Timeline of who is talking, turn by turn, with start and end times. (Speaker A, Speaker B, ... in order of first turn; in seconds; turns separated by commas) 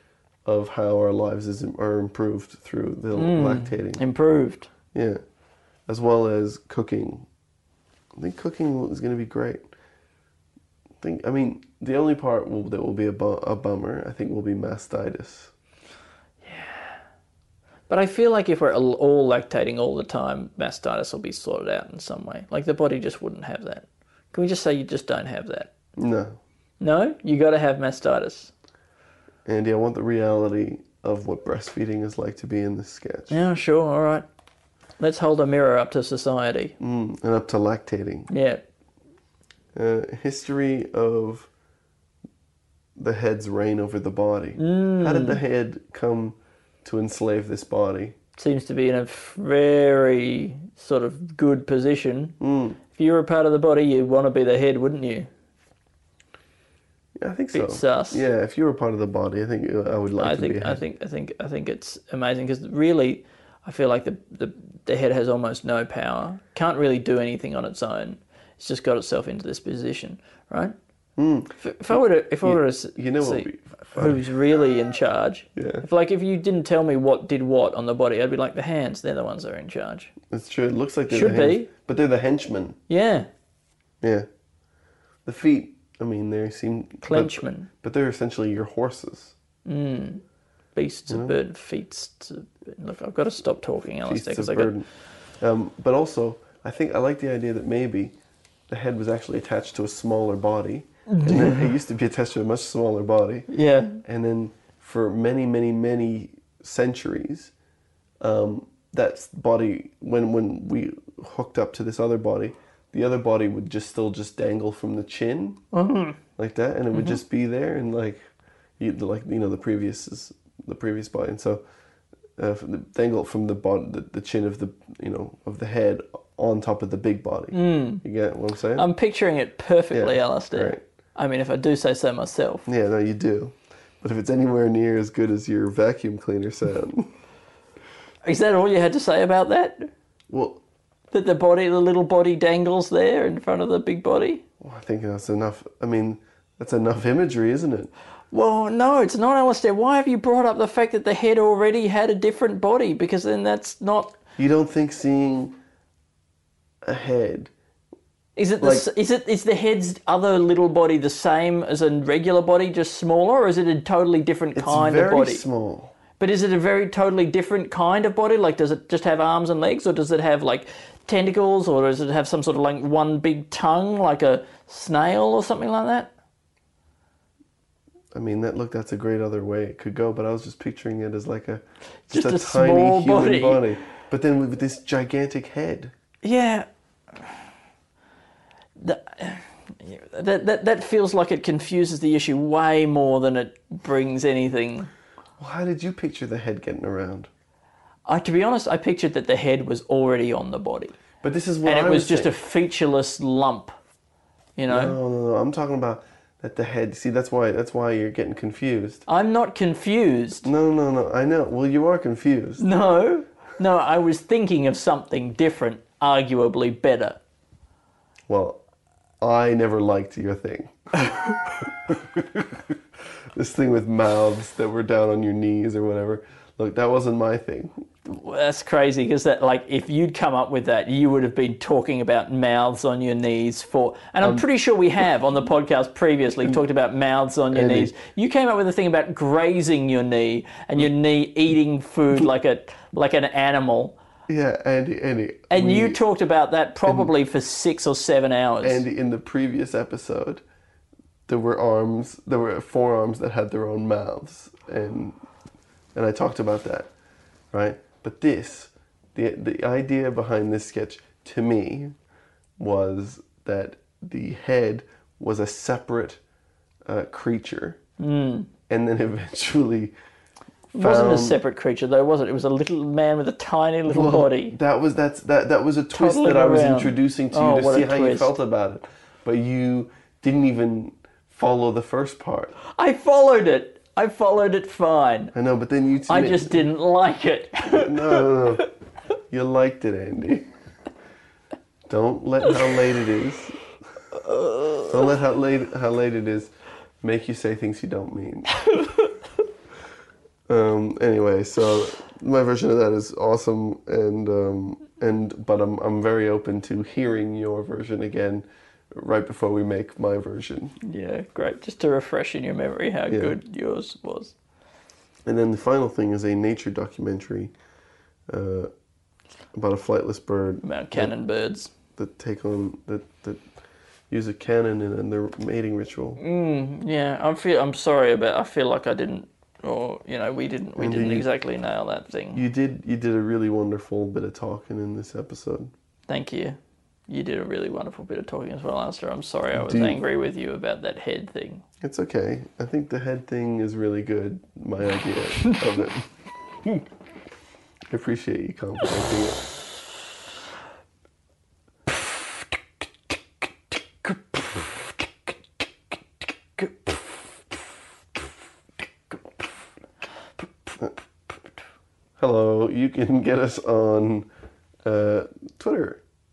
Speaker A: 0.4-4.0, Speaker B: 3.1-4.7, Speaker A: 4.9-5.2, Speaker A: 5.9-7.3, Speaker A: 8.2-9.7, Speaker A: 11.0-15.5, Speaker B: 16.4-17.0, Speaker B: 17.9-25.7, Speaker A: 25.9-26.4, Speaker B: 26.8-28.5, Speaker A: 29.4-33.4, Speaker B: 33.3-34.2, Speaker B: 35.0-36.7, Speaker A: 36.8-38.3, Speaker B: 38.3-38.6, Speaker A: 39.7-41.5, Speaker A: 43.0-48.1, Speaker B: 44.5-45.4, Speaker B: 48.4-52.4, Speaker A: 52.4-52.8, Speaker B: 52.9-55.3, Speaker A: 57.1-60.8, Speaker B: 57.5-58.2, Speaker B: 60.2-70.7, Speaker A: 71.2-74.3, Speaker B: 71.6-80.1, Speaker A: 75.5-75.8, Speaker A: 80.3-82.8, Speaker B: 81.1-81.7, Speaker B: 82.9-83.3, Speaker A: 84.0-84.3, Speaker A: 85.2-89.3, Speaker B: 87.0-87.7, Speaker B: 89.6-90.2, Speaker B: 90.7-94.7, Speaker A: 91.1-91.4, Speaker A: 93.9-98.1, Speaker A: 98.7-103.5, Speaker B: 101.1-101.7, Speaker B: 103.5-104.0, Speaker A: 104.0-107.5, Speaker A: 108.2-115.6, Speaker B: 115.7-116.2, Speaker A: 116.4-118.2, Speaker B: 116.9-117.2, Speaker A: 118.8-121.6, Speaker A: 122.4-128.9, Speaker B: 127.5-128.0, Speaker B: 128.8-132.7, Speaker A: 129.9-130.8, Speaker A: 132.7-137.1, Speaker B: 138.2-139.9, Speaker A: 140.3-140.6, Speaker B: 141.1-144.4, Speaker A: 144.6-147.9, Speaker B: 148.3-154.1, Speaker A: 154.4-155.6, Speaker A: 156.8-157.5, Speaker B: 158.3-165.4, Speaker A: 158.6-158.8, Speaker A: 164.5-165.9, Speaker B: 166.2-176.1, Speaker A: 178.1-185.9, Speaker B: 182.1-183.8, Speaker B: 186.2-186.7, Speaker B: 188.8-194.9, Speaker A: 195.4-197.3, Speaker B: 198.1-200.9, Speaker A: 201.2-202.3, Speaker B: 201.6-203.7, Speaker B: 204.6-205.0, Speaker A: 204.7-209.0, Speaker B: 209.1-210.5, Speaker A: 210.4-212.6, Speaker B: 212.6-217.2, Speaker A: 218.3-218.6, Speaker A: 219.2-220.9, Speaker A: 223.3-227.9, Speaker B: 228.1-243.9, Speaker A: 234.2-234.4, Speaker A: 237.5-237.9, Speaker A: 244.3-246.0, Speaker B: 245.5-248.8, Speaker A: 248.6-250.4, Speaker A: 251.3-255.2, Speaker A: 255.9-256.9, Speaker A: 257.5-261.9, Speaker A: 262.6-266.2, Speaker A: 266.8-267.8, Speaker B: 268.0-268.5, Speaker A: 268.7-269.9, Speaker A: 270.7-271.4, Speaker B: 270.7-274.6, Speaker A: 273.9-282.5, Speaker B: 275.9-278.4, Speaker B: 282.7-285.3, Speaker A: 285.3-286.6, Speaker B: 286.1-288.6, Speaker A: 287.7-288.7, Speaker A: 289.3-290.5, Speaker A: 291.9-293.6, Speaker B: 294.3-294.9, Speaker A: 294.9-298.7, Speaker A: 300.5-310.7, Speaker B: 310.8-314.3, Speaker A: 313.1-313.4, Speaker A: 315.2-317.5, Speaker A: 318.3-318.7, Speaker A: 319.5-321.1, Speaker B: 320.6-321.7, Speaker A: 321.9-323.4, Speaker A: 324.1-326.2, Speaker B: 326.2-332.4, Speaker A: 330.8-331.3, Speaker A: 332.3-335.7, Speaker B: 336.1-341.6, Speaker A: 339.5-340.0, Speaker A: 341.8-346.1, Speaker A: 347.9-349.4, Speaker B: 354.0-354.9, Speaker B: 356.6-357.1, Speaker B: 360.4-360.8, Speaker A: 362.2-364.3, Speaker A: 364.8-366.0